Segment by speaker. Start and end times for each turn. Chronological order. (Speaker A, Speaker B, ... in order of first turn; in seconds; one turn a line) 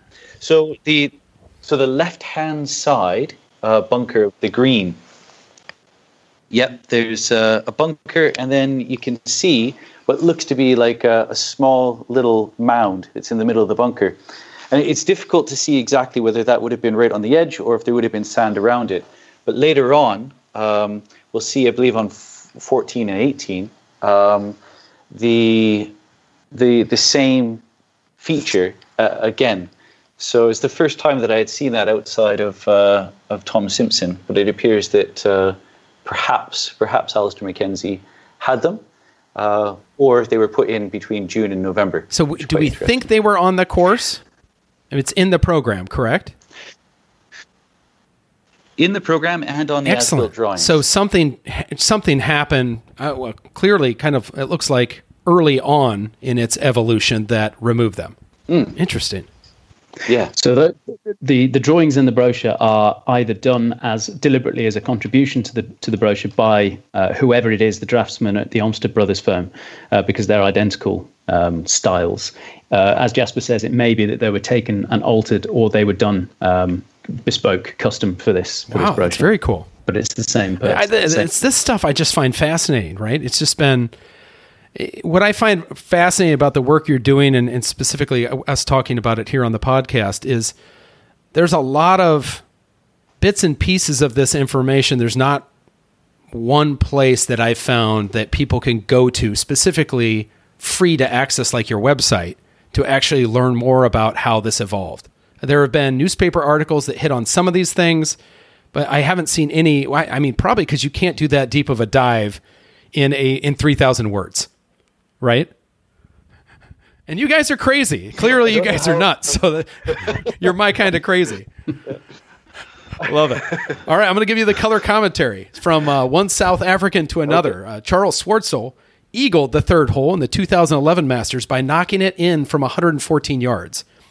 Speaker A: 0.4-5.0
Speaker A: 6.5-14.2
Speaker A: 14.7-24.6
Speaker A: 25.1-25.9
Speaker A: 26.5-27.6
Speaker A: 28.2-38.8
Speaker A: 39.4-43.0
Speaker B: 42.1-44.2
Speaker B: 44.9-46.3
Speaker A: 48.8-50.8
Speaker B: 49.9-58.1
Speaker A: 58.5-58.7
Speaker B: 58.8-59.3
Speaker A: 60.1-60.3
Speaker C: 60.4-79.3
Speaker B: 78.7-79.7
Speaker C: 79.8-81.3
Speaker B: 80.6-83.9
Speaker B: 84.8-90.5
Speaker B: 91.3-92.4
Speaker B: 93.2-95.5
Speaker B: 96.3-108.2
Speaker B: 108.7-112.4
Speaker B: 112.9-114.5
Speaker B: 115.2-115.5
Speaker B: 117.1-121.5
Speaker B: 123.0-133.8